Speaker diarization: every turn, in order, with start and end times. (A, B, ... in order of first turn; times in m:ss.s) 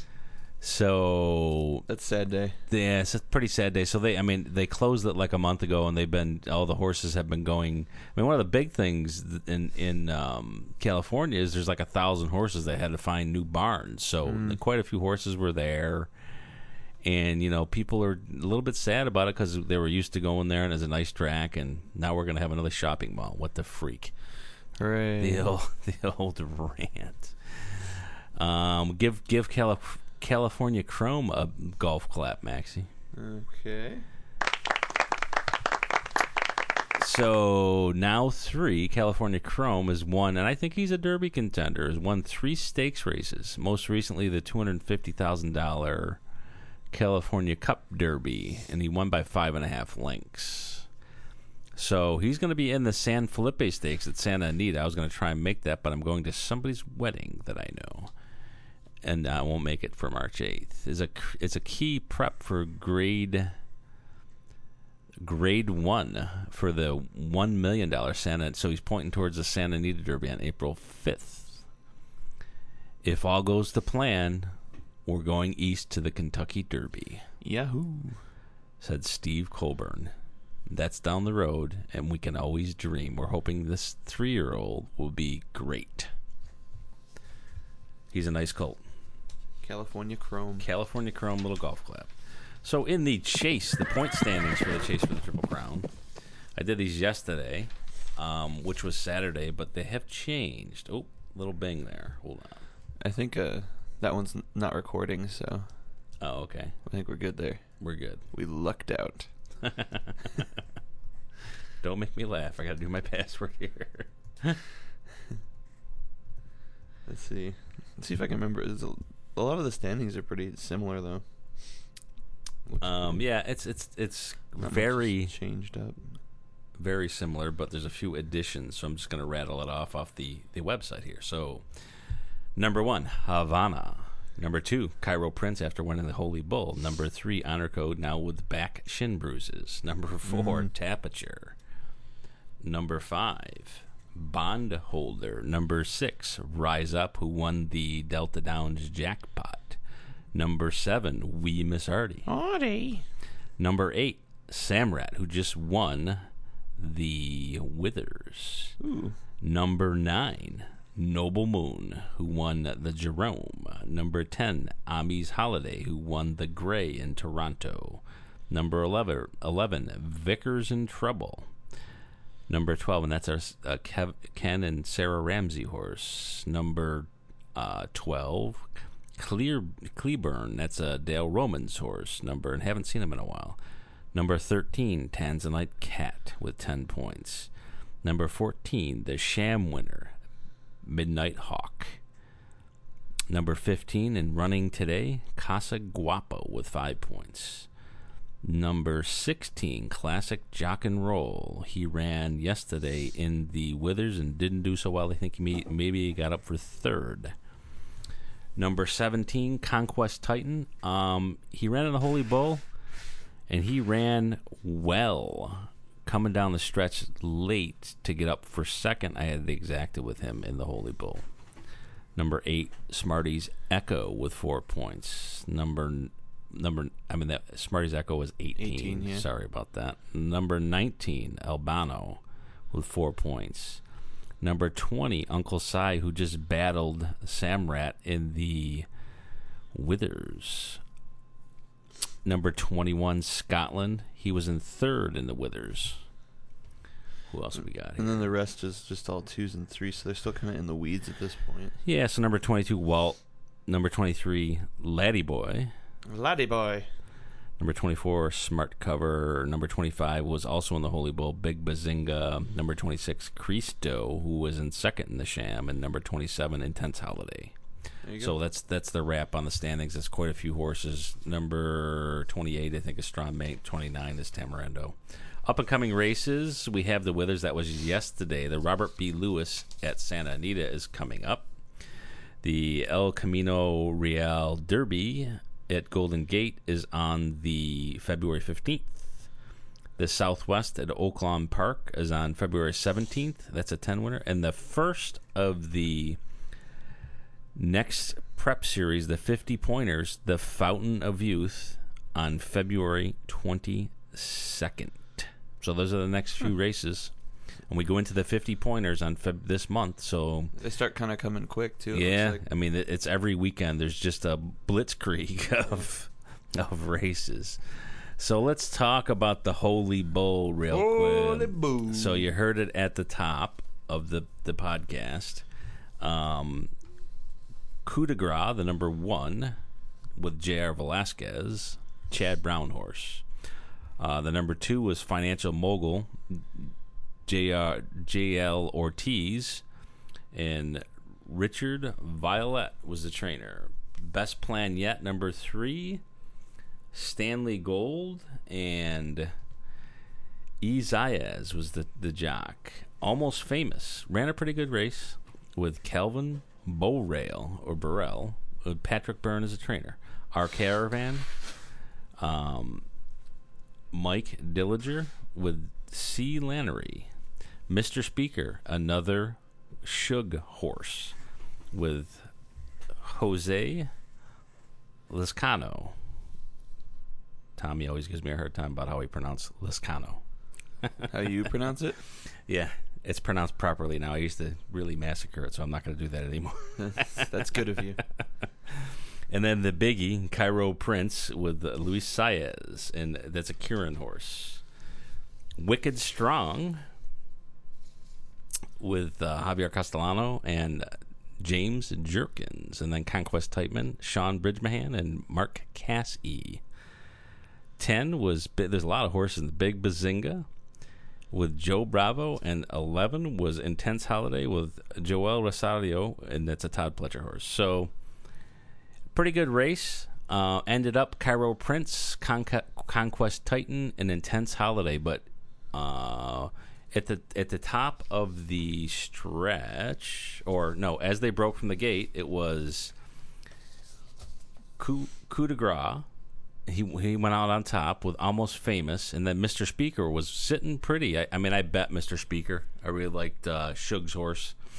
0:00.6-0:01.8 A
0:01.9-0:02.6 B
0:02.7-0:16.1 A
0:14.2-0:14.6 B
0:17.0-0:24.1 A
0:24.8-0:25.5 B
0:25.2-0:32.9 A
0:33.1-0:34.0 B
0:37.0-0:46.2 A
0:46.9-0:50.9 A
0:51.8-0:58.1 A
0:59.0-1:03.5 A
1:05.2-1:11.6 A
1:13.0-1:14.5 A
1:15.0-1:17.2 A
1:17.4-1:18.2 B
1:18.8-1:20.1 A
1:20.7-1:26.1 A
1:28.1-1:28.8 A
1:29.6-1:30.7 B
1:30.6-1:32.1 A
1:32.6-1:35.9 A
1:36.6-1:42.6 A
1:43.0-1:45.7 B
1:46.2-1:46.8 A
1:46.8-1:49.3 B
1:47.8-1:48.2 A
1:49.6-1:50.4 A
1:51.8-1:54.6 A
1:57.0-2:01.8 B
2:02.6-2:03.2 B
2:02.8-2:05.3 A
2:04.6-2:06.2 B
2:06.8-2:11.9 A
2:12.6-2:21.6 A
2:20.2-2:20.7 B
2:22.6-2:29.8 A
2:30.3-2:32.3 A
2:32.2-2:33.0 B
2:33.6-2:36.2 A
2:36.8-2:38.8 A
2:38.8-2:39.2 B
2:39.4-2:51.5 A
2:52.5-3:03.6 A
3:04.1-3:07.5 A
3:08.0-3:10.2 A
3:10.8-3:12.0 A
3:13.3-3:17.7 A
3:18.4-3:27.3 A
3:28.6-3:32.6 A
3:33.5-3:41.2 A
3:42.1-3:53.8 A
3:48.6-3:49.2 B
3:54.4-3:58.9 A
3:59.7-4:00.8 A
4:02.2-4:06.0 A
4:07.3-4:08.3 A
4:08.0-4:11.8 B
4:11.8-4:15.7 A
4:16.1-4:16.9 B
4:17.6-4:27.5 A
4:28.0-4:28.4 B
4:28.2-4:41.5 A
4:42.4-4:49.3 A
4:50.0-4:56.2 A
4:57.5-5:07.1 A
5:07.7-5:10.5 A
5:10.5-5:12.4 B
5:11.9-5:17.6 A
5:18.2-5:25.4 A
5:20.7-5:22.3 B
5:26.0-5:26.7 A
5:27.8-5:29.6 A
5:30.2-5:33.2 A
5:34.0-5:36.7 A
5:37.2-5:39.6 A
5:40.3-5:46.0 A
5:46.9-5:49.3 A
5:50.6-6:01.3 A
6:02.2-6:02.8 A
6:03.9-6:07.1 A
6:07.7-6:11.2 A
6:11.7-6:12.3 A
6:13.0-6:13.9 A
6:15.1-6:15.9 A
6:17.6-6:20.2 A
6:21.1-6:22.0 B
6:22.2-6:27.5 A
6:26.8-6:28.0 B
6:28.7-6:34.6 A
6:35.6-6:36.8 A
6:38.8-6:46.6 A
6:47.8-6:50.4 A
6:51.3-6:57.9 A
6:59.1-7:12.9 A
7:14.8-7:16.0 A
7:16.6-7:24.6 A